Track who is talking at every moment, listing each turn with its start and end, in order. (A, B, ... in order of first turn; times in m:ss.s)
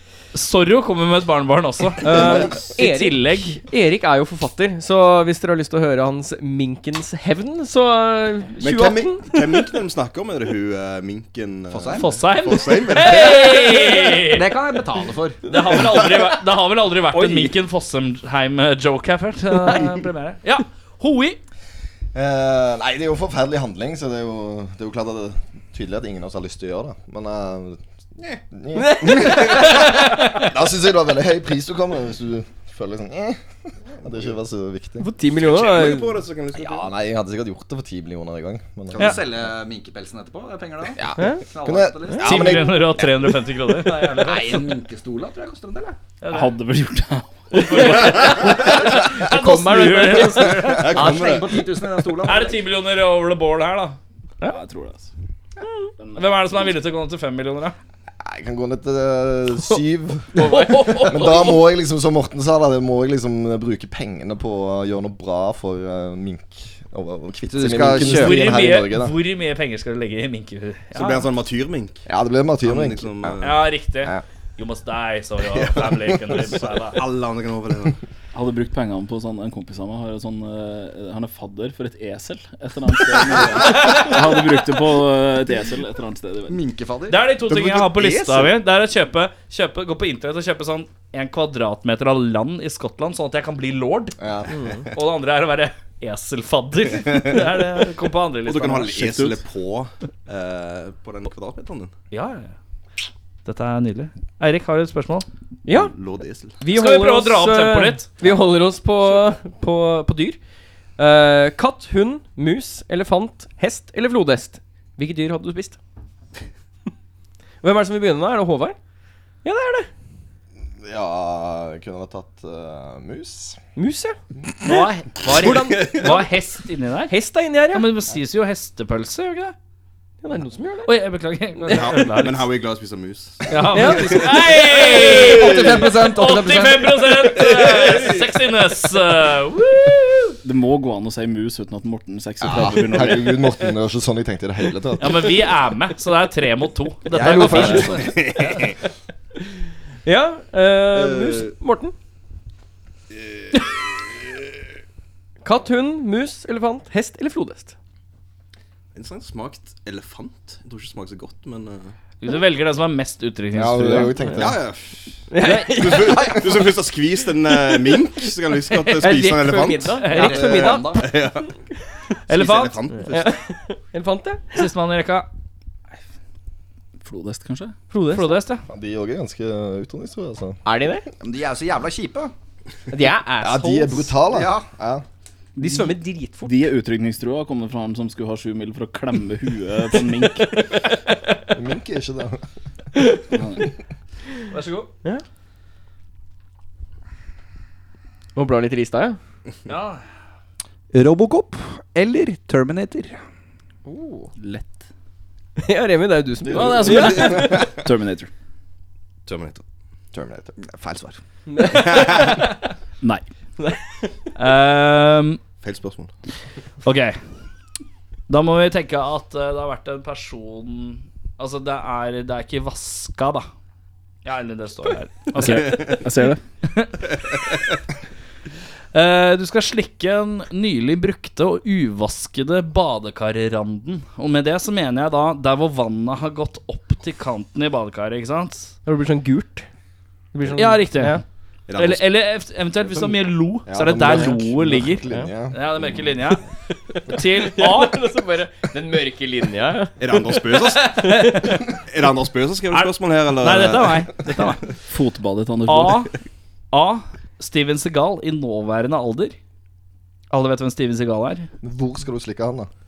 0:00.3-0:03.6 A
0:02.0-0:09.8 B
0:02.1-0:02.5 C
0:08.6-0:13.9 C
0:11.7-0:12.1 D
0:11.9-0:14.5 A
0:14.2-0:15.4 D
0:15.4-0:21.4 A
0:17.1-0:17.6 E
0:22.1-0:27.8 F
0:28.4-0:33.4 F
0:28.7-0:29.8 B
0:29.2-0:29.8 C
0:29.9-0:30.2 A
0:34.0-0:35.1 F
0:35.0-0:36.2 B
0:35.3-0:36.9 C
0:36.6-0:39.3 F
0:38.9-0:42.7 D
0:39.0-0:39.2 A
0:41.0-0:42.8 F
0:41.2-0:41.4 B
0:42.2-0:44.6 A
0:43.9-0:46.0 D
0:46.2-0:46.5 A
0:46.3-0:47.9 E
0:47.5-0:51.1 A
0:47.6-0:50.8 B
0:50.6-0:51.7 C
0:50.8-0:52.6 D
0:52.2-0:54.0 A
0:54.4-0:55.1 E
0:56.0-0:56.7 E
0:56.2-0:57.7 A
0:58.2-1:09.2 F
1:00.4-1:01.4 B
1:00.4-1:01.6 A
1:07.5-1:08.6 D
1:07.9-1:11.3 A
1:10.9-1:12.0 C
1:12.1-1:13.4 F
1:12.6-1:13.7 C
1:13.4-1:17.0 A
1:15.5-1:18.0 C
1:18.3-1:26.6 E
1:26.5-1:27.2 D
1:27.1-1:34.2 A
1:27.4-1:28.6 C
1:34.2-1:34.6 F
1:34.5-1:34.8 B
1:34.9-1:39.1 A
1:37.0-1:37.4 C
1:38.4-1:41.9 C
1:38.9-1:39.4 E
1:42.1-1:42.5 A
1:43.4-1:45.3 A
1:45.6-1:45.9 B
1:45.7-1:46.6 C
1:46.6-1:50.4 B
1:46.7-1:48.1 A
1:51.0-1:55.8 B
1:57.6-1:58.8 B
1:59.4-1:59.9 B
2:00.8-2:03.6 F
2:03.8-2:04.2 B
2:04.6-2:07.2 A
2:05.3-2:06.3 B
2:05.4-2:06.2 C
2:07.1-2:07.9 B
2:07.7-2:09.6 A
2:10.2-2:10.9 B
2:10.8-2:12.5 A
2:11.7-2:15.8 C
2:13.5-2:20.4 A
2:13.7-2:14.6 B
2:15.2-2:16.9 D
2:15.2-2:16.4 B
2:17.2-2:18.3 C
2:20.4-2:23.6 E
2:22.4-2:25.4 F
2:25.0-2:28.7 A
2:27.1-2:28.2 F
2:27.2-2:28.0 B
2:27.6-2:28.7 C
2:30.0-2:31.9 B
2:30.9-2:31.6 C
2:33.1-2:34.0 C
2:35.4-2:37.7 B
2:38.9-2:41.9 C
2:42.2-2:44.2 A
2:43.6-2:44.6 F
2:44.4-2:51.5 C
2:45.3-2:46.4 B
2:45.4-2:45.8 A
2:48.7-2:49.1 A
2:49.0-2:51.1 B
2:50.0-2:50.5 A
2:50.2-2:51.1 D
2:52.3-2:52.8 A
2:52.3-2:53.4 C
2:53.1-2:54.7 B
2:54.5-2:55.3 A
2:57.0-2:57.7 E
2:57.9-2:58.4 B
2:58.1-2:58.6 A
2:58.7-3:00.6 F
3:00.6-3:01.1 B
3:01.2-3:02.3 D
3:02.9-3:04.1 B
3:03.4-3:05.0 F
3:04.3-3:04.6 D
3:05.6-3:06.6 B
3:05.6-3:10.7 E
3:11.5-3:12.4 F
3:13.3-3:13.7 E
3:14.5-3:14.9 A
3:18.4-3:19.2 B
3:19.6-3:20.0 A
3:20.9-3:23.2 D
3:23.8-3:24.3 B
3:24.4-3:24.8 E
3:25.6-3:27.6 B
3:26.4-3:28.3 E
3:26.9-3:27.2 C
3:29.3-3:29.6 C
3:30.1-3:30.5 F
3:30.6-3:31.2 D
3:31.5-3:32.6 B
3:31.7-3:32.4 C
3:33.6-3:34.1 B
3:34.4-3:35.4 A
3:35.6-3:36.1 C
3:36.8-3:37.2 A
3:38.3-3:43.5 A
3:44.2-3:45.9 A
3:45.4-3:46.4 E
3:45.7-3:46.0 C
3:46.6-3:47.0 A
3:48.9-3:58.8 A
3:58.8-3:59.7 B
4:00.3-4:01.2 B
4:00.5-4:01.2 A
4:01.7-4:02.0 C
4:01.7-4:06.4 A
4:03.6-4:06.1 F
4:06.9-4:10.0 B
4:07.1-4:08.0 A
4:10.0-4:14.2 C
4:10.7-4:11.7 A
4:12.7-4:14.7 A
4:14.9-4:16.1 E
4:15.6-4:16.1 A
4:16.7-4:19.4 A
4:20.3-4:21.5 A
4:21.6-4:22.7 F